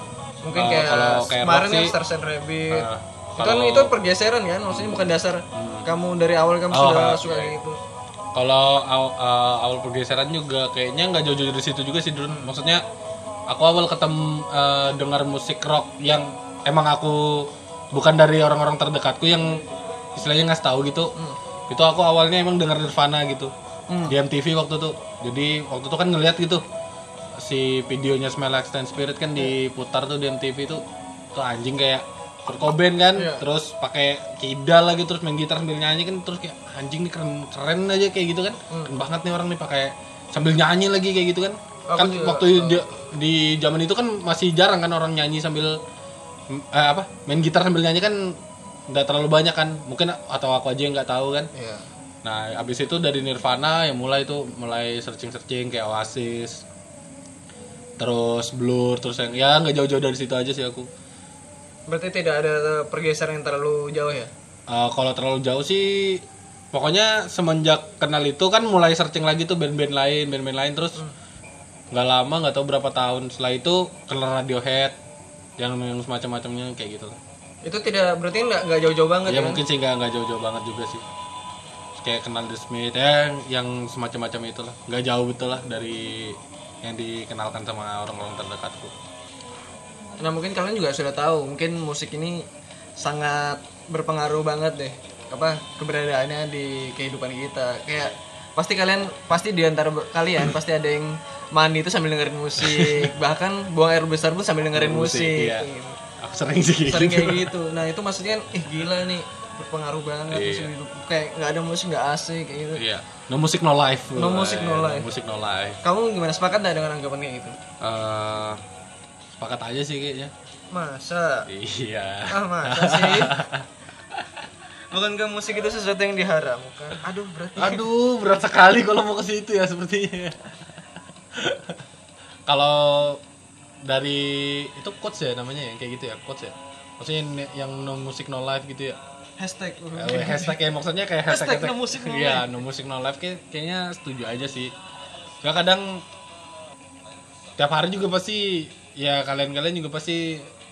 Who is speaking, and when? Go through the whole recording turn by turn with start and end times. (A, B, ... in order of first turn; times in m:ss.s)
0:00.4-0:02.9 A
0:00.5-0:02.0 B
0:02.7-0:03.9 B
0:03.4-0:07.8 A
0:04.7-0:05.9 B
0:06.7-0:07.6 B
0:08.4-0:12.8 B
0:13.5-0:19.6 B
0:20.2-0:21.1 B
0:21.7-0:23.5 B
0:24.1-0:26.6 B
0:27.4-0:30.8 B
0:31.3-0:45.8 B
0:33.2-0:33.4 A
0:41.9-0:42.8 A
0:46.5-0:51.5 B
0:51.5-0:51.9 A
0:52.2-0:56.6 B
0:58.0-1:00.9 B
1:01.9-1:04.3 A
1:04.7-1:11.0 B
1:11.9-1:15.0 B
1:15.6-1:17.2 B
1:17.6-1:19.6 A
1:19.3-1:21.0 B
1:22.0-1:28.9 B
1:30.2-1:32.5 A
1:33.0-1:46.0 A
1:42.6-1:43.1 B
1:44.8-1:47.5 B
1:46.9-1:52.8 A
1:50.3-1:50.7 B
1:52.8-1:55.8 B
1:54.2-1:55.1 A
1:55.8-1:57.6 A
1:57.8-1:58.6 B
1:59.4-2:00.3 B
2:00.7-2:01.5 A
2:01.5-2:03.7 B
2:02.3-2:03.3 A
2:04.9-2:07.8 A
2:07.6-2:10.4 B
2:11.3-2:11.8 B
2:12.5-2:13.2 B
2:13.8-2:19.0 B
2:19.4-2:20.6 A
2:20.0-2:24.7 B
2:21.3-2:22.5 A
2:25.4-2:26.0 B
2:27.6-2:30.5 B